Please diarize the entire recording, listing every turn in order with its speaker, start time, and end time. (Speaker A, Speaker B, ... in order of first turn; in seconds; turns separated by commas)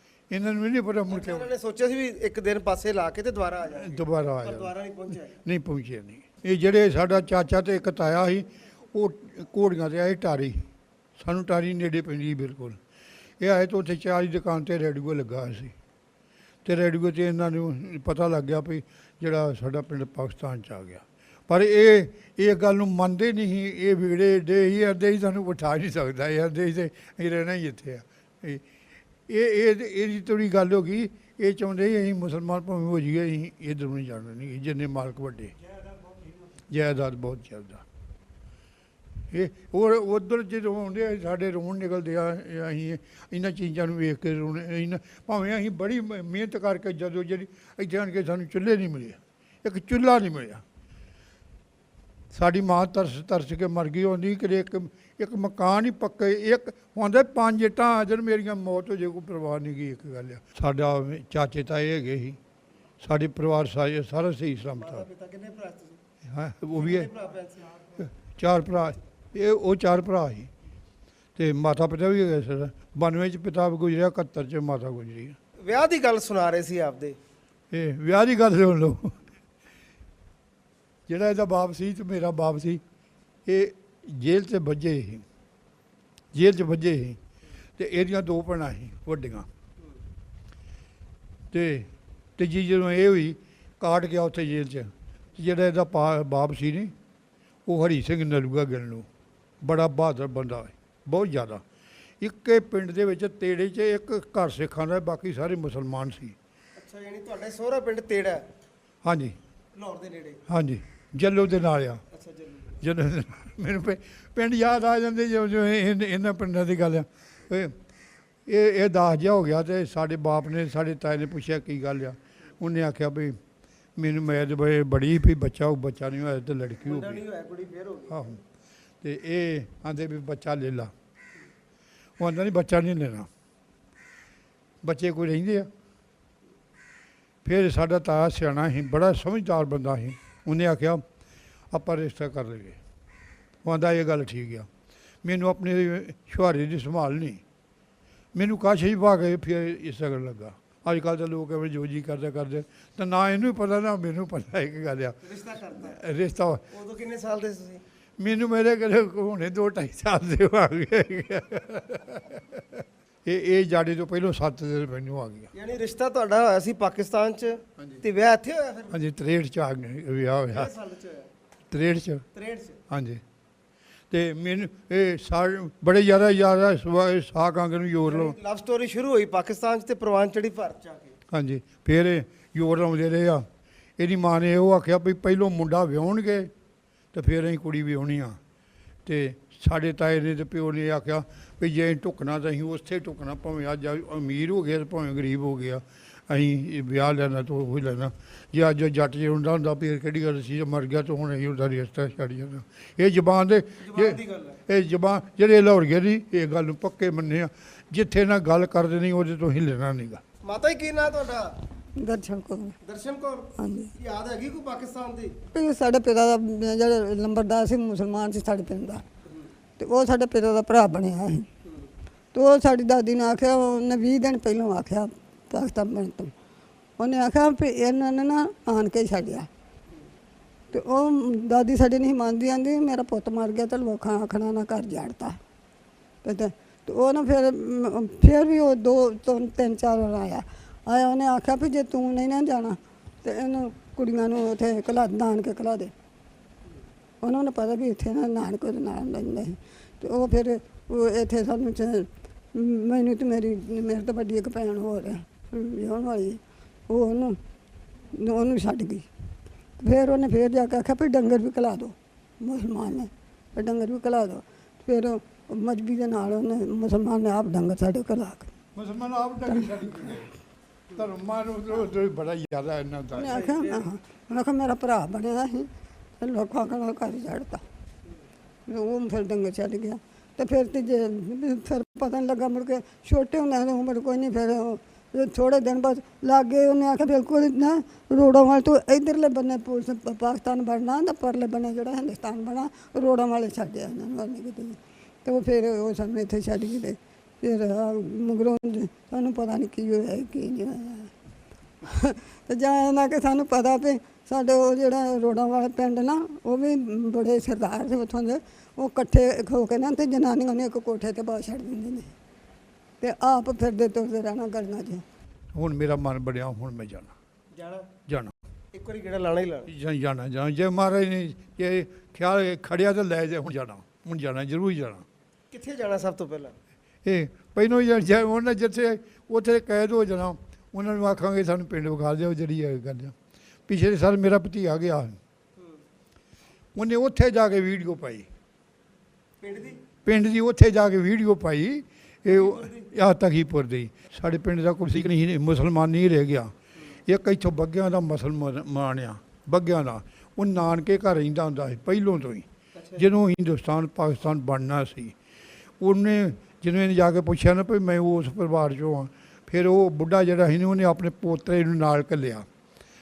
Speaker A: 0.3-1.5, Speaker B: 1.1-5.4, Speaker A: 3.8-4.7, Speaker A: 5.4-10.7, Speaker A: 11.2-12.8, Speaker A: 13.4-15.7, Speaker A: 16.6-28.6, Speaker A: 29.3-35.5, Speaker A: 36.7-37.8, Speaker A: 39.3-50.6, Speaker A: 52.3-62.4, Speaker A: 63.0-65.0, Speaker B: 64.8-66.0, Speaker A: 66.3-67.1, Speaker B: 66.7-68.1, Speaker A: 68.2-70.5, Speaker A: 71.4-75.4, Speaker B: 75.6-77.2, Speaker A: 77.7-79.2, Speaker A: 81.1-82.8, Speaker A: 83.5-85.2, Speaker A: 86.3-87.2, Speaker A: 87.8-89.5, Speaker A: 91.5-96.9, Speaker A: 97.7-99.1, Speaker A: 99.6-101.6, Speaker A: 102.2-106.4, Speaker B: 106.8-108.4, Speaker A: 109.0-109.4, Speaker B: 109.8-110.4, Speaker A: 110.5-112.0, Speaker B: 112.1-112.8, Speaker A: 112.8-117.8, Speaker A: 118.5-123.4, Speaker A: 124.0-127.2, Speaker B: 126.8-128.3, Speaker A: 128.1-128.4, Speaker A: 129.0-130.9, Speaker A: 132.2-133.3, Speaker A: 134.8-135.7, Speaker A: 137.4-141.0, Speaker A: 141.7-142.8, Speaker A: 143.7-144.7, Speaker A: 145.2-147.4, Speaker A: 148.3-155.2, Speaker B: 155.2-156.0, Speaker A: 155.8-156.6, Speaker B: 156.7-157.8, Speaker A: 158.2-162.6, Speaker A: 163.2-165.5, Speaker B: 165.5-168.9, Speaker A: 168.9-170.7, Speaker B: 170.5-171.3, Speaker A: 171.7-172.2, Speaker B: 172.3-172.8, Speaker A: 172.9-173.2, Speaker A: 174.1-178.4, Speaker B: 178.1-181.2, Speaker A: 181.3-183.5, Speaker A: 184.0-186.5, Speaker A: 187.1-188.4, Speaker A: 189.1-210.2, Speaker B: 203.8-204.6, Speaker B: 210.4-211.5, Speaker C: 212.0-212.8, Speaker B: 212.8-215.4, Speaker C: 213.6-213.9, Speaker C: 215.5-219.0, Speaker C: 219.8-221.5, Speaker C: 222.3-226.3, Speaker C: 227.0-229.5, Speaker C: 230.7-235.4, Speaker C: 236.2-245.9, Speaker C: 247.2-257.4, Speaker C: 258.1-259.1, Speaker C: 259.8-268.5, Speaker A: 268.8-270.3, Speaker A: 270.9-273.5, Speaker C: 273.1-275.7, Speaker B: 273.3-273.9, Speaker C: 276.2-277.6, Speaker C: 278.7-301.1, Speaker C: 301.9-312.1, Speaker C: 313.0-315.1, Speaker A: 315.6-317.1, Speaker B: 317.5-317.9, Speaker A: 318.1-318.3, Speaker B: 318.7-319.7, Speaker A: 319.7-325.1, Speaker B: 325.5-326.6, Speaker A: 327.0-333.1, Speaker A: 333.7-335.2, Speaker A: 336.8-338.3, Speaker B: 339.4-339.8, Speaker A: 340.1-346.5, Speaker B: 342.3-342.9, Speaker A: 347.1-352.5, Speaker B: 352.7-353.1, Speaker A: 353.0-355.1, Speaker A: 355.8-362.5